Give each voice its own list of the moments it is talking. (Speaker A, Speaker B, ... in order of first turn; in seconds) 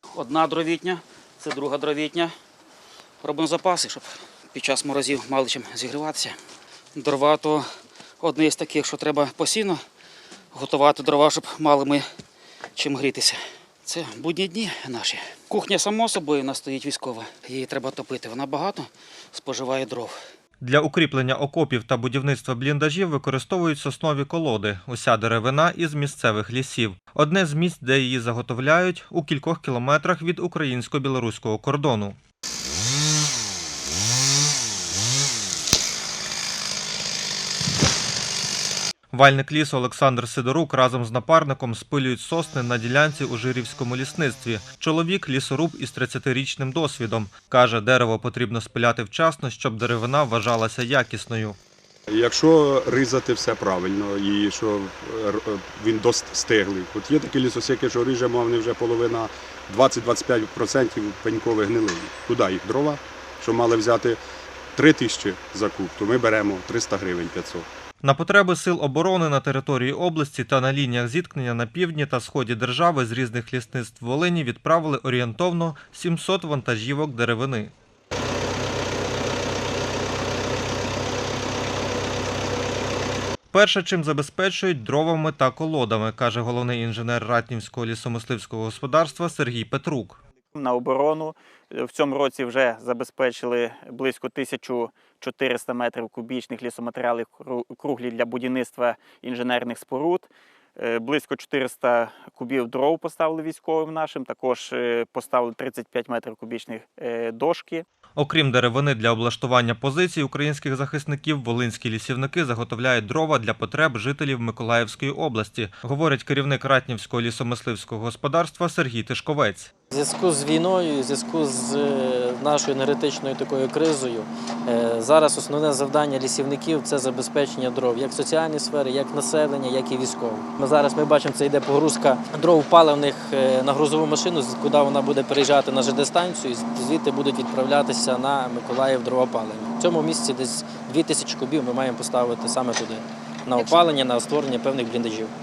Speaker A: 0.1-2.4, 3.2-6.4, 7.0-9.8, 10.5-12.1, 12.7-20.2
Speaker B: 20.6-32.2, 39.1-51.6, 68.0-77.7, 83.5-90.2, 108.2-119.7
Speaker C: 52.1-64.2, 64.8-67.7
Speaker D: 90.5-107.8
Speaker E: 119.9-145.3